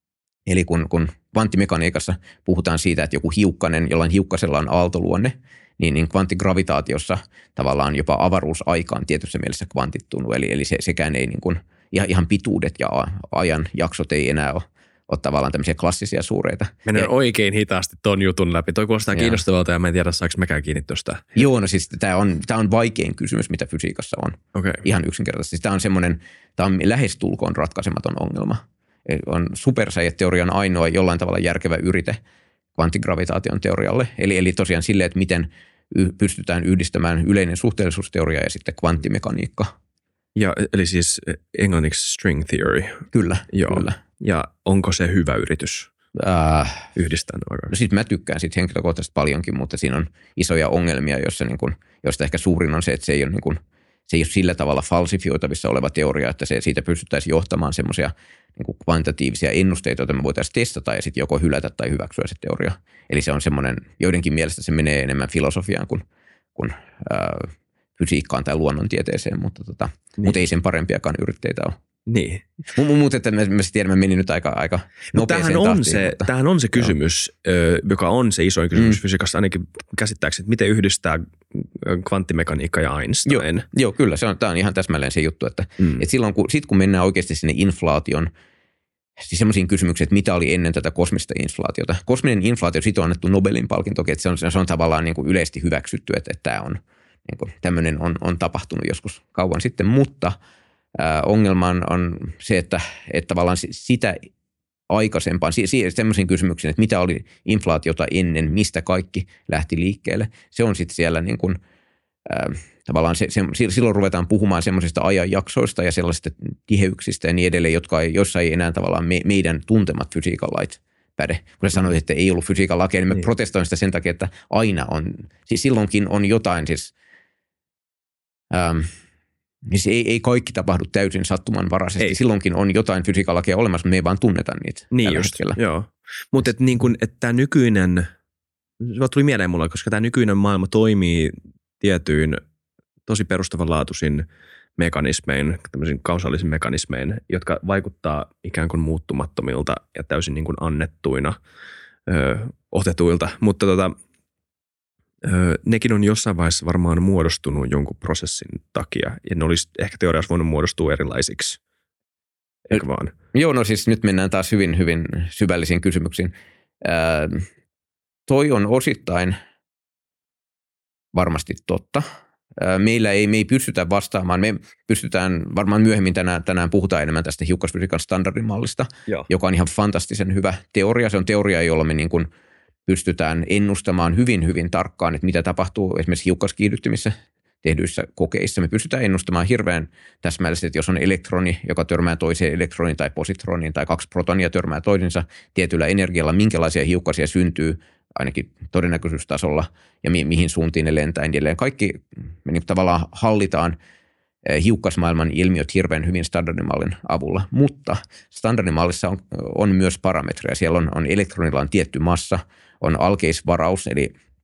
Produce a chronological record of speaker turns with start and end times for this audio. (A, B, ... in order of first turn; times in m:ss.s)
0:00.4-0:17.1 A
0:16.8-0:21.4 B
0:19.1-0:19.4 A
0:21.4-0:32.2 A
0:24.5-0:24.8 B
0:32.7-0:39.7 A
0:40.4-0:45.9 B
0:43.1-0:44.0 A
0:46.1-0:46.9 A
0:47.0-0:47.7 B
0:47.7-0:53.6 A
0:54.1-1:11.7 A
1:12.1-1:12.5 B
1:12.7-1:16.3 A
1:15.1-1:23.7 B
1:23.2-1:28.3 A
1:29.2-1:40.4 A
1:40.9-1:44.2 A
1:44.9-1:51.6 A
1:52.2-2:06.9 A
2:08.5-2:08.9 A
2:09.6-2:15.6 A
2:14.9-2:18.1 B
2:18.8-2:22.4 B
2:23.0-2:24.2 B
2:24.8-2:31.4 B
2:32.1-2:33.9 B
2:35.2-2:41.6 B
2:42.7-2:43.1 B
2:43.3-2:47.5 A
2:48.3-2:49.4 A
2:51.1-2:52.0 A
2:52.6-3:02.3 A
3:02.9-3:23.8 A
3:24.4-3:34.1 A